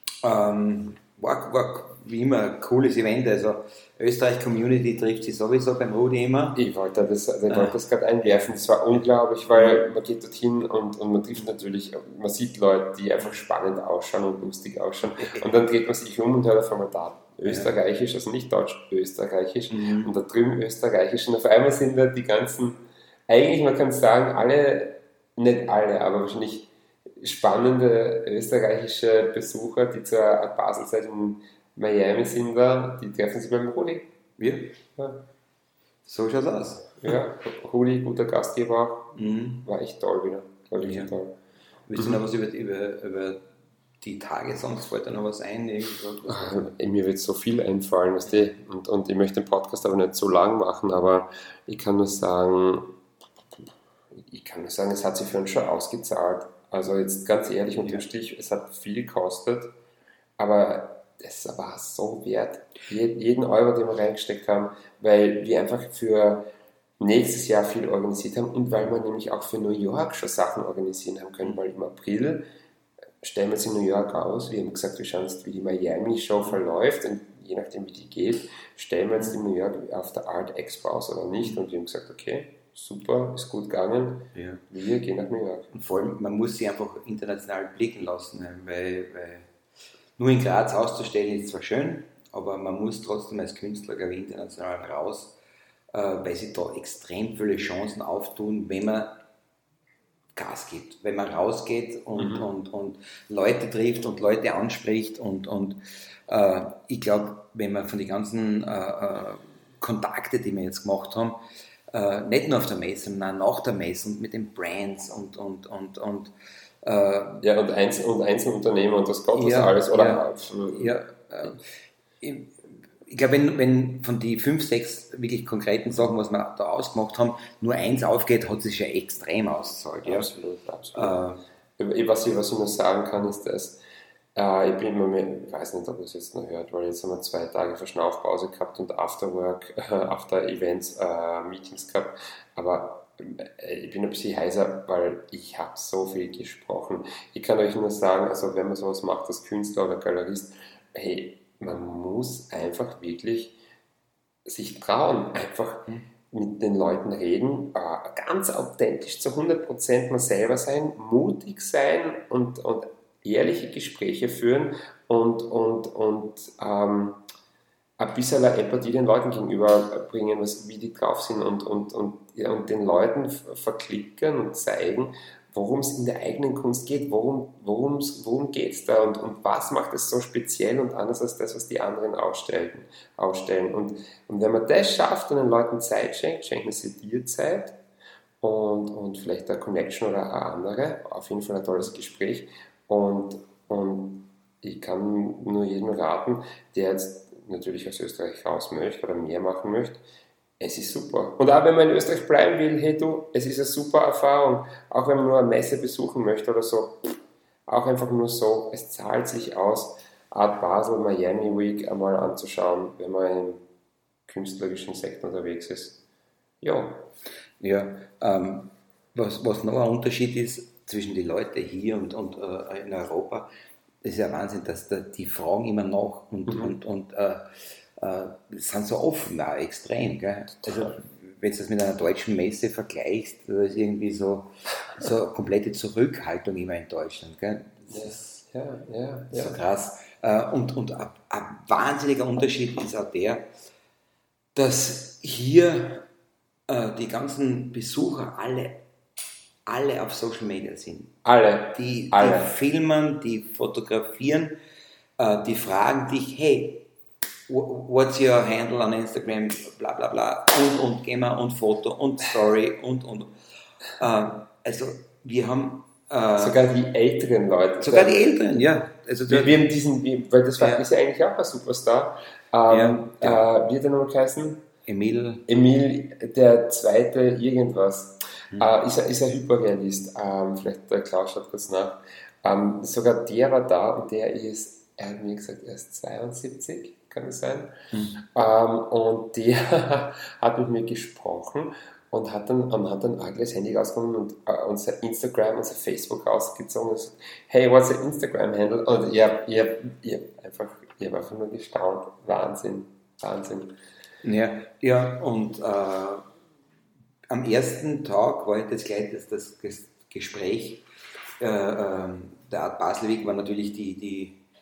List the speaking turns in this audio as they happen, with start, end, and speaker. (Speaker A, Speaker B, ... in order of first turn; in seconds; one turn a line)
Speaker A: 0.2-6.6
Speaker B: 6.6-34.1
Speaker A: 7.5-7.8
Speaker A: 9.5-9.9
Speaker A: 15.2-15.5
Speaker A: 17.4-17.7
Speaker A: 19.7-20.1
Speaker A: 34.4-34.8
Speaker B: 35.0-35.3
Speaker A: 36.0-37.2
Speaker B: 37.0-41.4
Speaker A: 39.1-39.7
Speaker A: 40.8-41.1
Speaker A: 41.9-43.5
Speaker B: 42.0-42.2
Speaker A: 44.0-46.7
Speaker B: 46.3-53.0
Speaker B: 54.1-59.8
Speaker B: 60.4-66.5
Speaker B: 67.0-72.5
Speaker B: 73.2-85.7
Speaker A: 84.3-84.6
Speaker A: 85.7-89.5
Speaker A: 90.2-95.4
Speaker A: 95.9-99.2
Speaker A: 100.4-111.4
Speaker B: 102.2-102.5
Speaker A: 111.9-117.5
Speaker B: 117.4-121.0
Speaker A: 119.3-130.3
Speaker B: 130.1-131.2
Speaker A: 130.9-131.4
Speaker B: 131.8-133.8
Speaker B: 134.3-153.6
Speaker B: 154.4-167.2
Speaker B: 168.0-187.8
Speaker B: 188.4-200.0
Speaker B: 200.6-213.6
Speaker B: 214.3-216.0
Speaker B: 216.6-217.1
Speaker A: 217.6-223.5
Speaker A: 224.0-238.4
Speaker B: 226.5-226.8
Speaker B: 230.7-230.9
Speaker B: 237.9-239.6
Speaker A: 239.3-243.5
Speaker A: 244.6-246.1
Speaker A: 246.7-248.8
Speaker A: 249.7-251.2
Speaker B: 251.2-252.6
Speaker A: 251.7-254.6
Speaker A: 255.2-256.9
Speaker A: 257.5-263.3
Speaker A: 264.0-266.6
Speaker B: 266.4-268.2
Speaker A: 267.8-269.6
Speaker B: 269.3-274.6
Speaker A: 270.6-270.9
Speaker A: 272.7-273.5
Speaker A: 274.9-275.5
Speaker B: 275.5-303.8
Speaker A: 287.9-288.2
Speaker A: 304.2-306.2
Speaker A: 307.3-310.8
Speaker A: 311.4-314.4